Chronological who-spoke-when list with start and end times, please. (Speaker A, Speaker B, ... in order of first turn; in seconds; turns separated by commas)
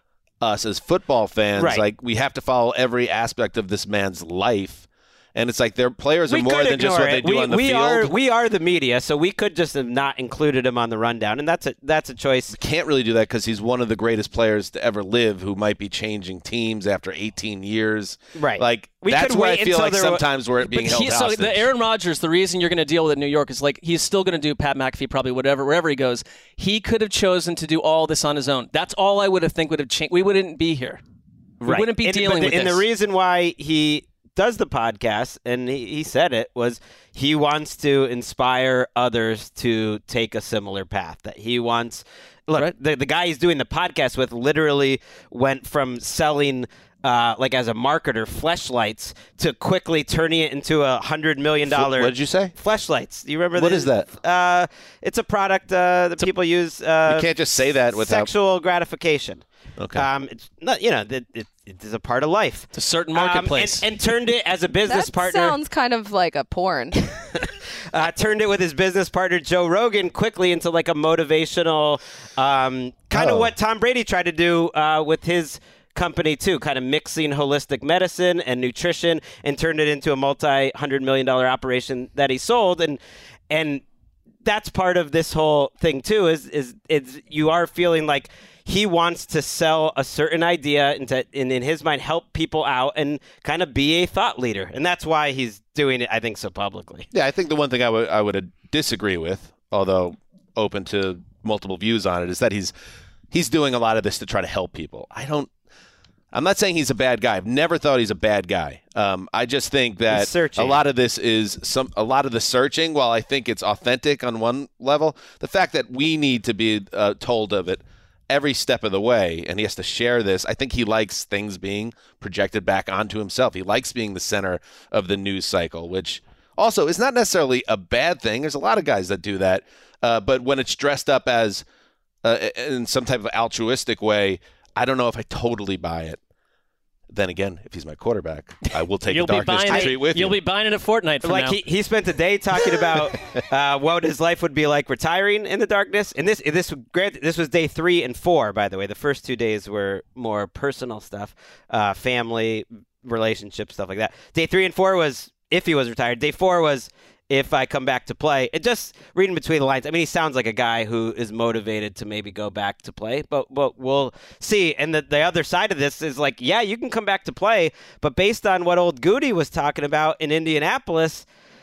Speaker A: 0.4-8.1, Speaker B: 1.6-1.9, Speaker B: 6.3-12.6, Speaker A: 12.5-21.7, Speaker B: 18.4-20.2, Speaker C: 20.6-31.0, Speaker B: 31.6-57.3, Speaker C: 31.6-32.8, Speaker A: 51.7-52.5, Speaker A: 53.5-54.1, Speaker A: 57.1-58.3, Speaker B: 57.9-65.6, Speaker A: 59.8-60.1, Speaker C: 62.7-63.9, Speaker D: 64.9-67.1, Speaker B: 67.9-83.8, Speaker A: 73.1-73.5, Speaker B: 84.4-97.1, Speaker A: 97.1-102.7, Speaker A: 103.3-105.5, Speaker A: 106.3-131.7, Speaker B: 110.1-110.8, Speaker A: 132.2-136.2, Speaker A: 137.1-140.4, Speaker C: 139.1-141.6, Speaker B: 139.7-139.9, Speaker B: 141.2-171.2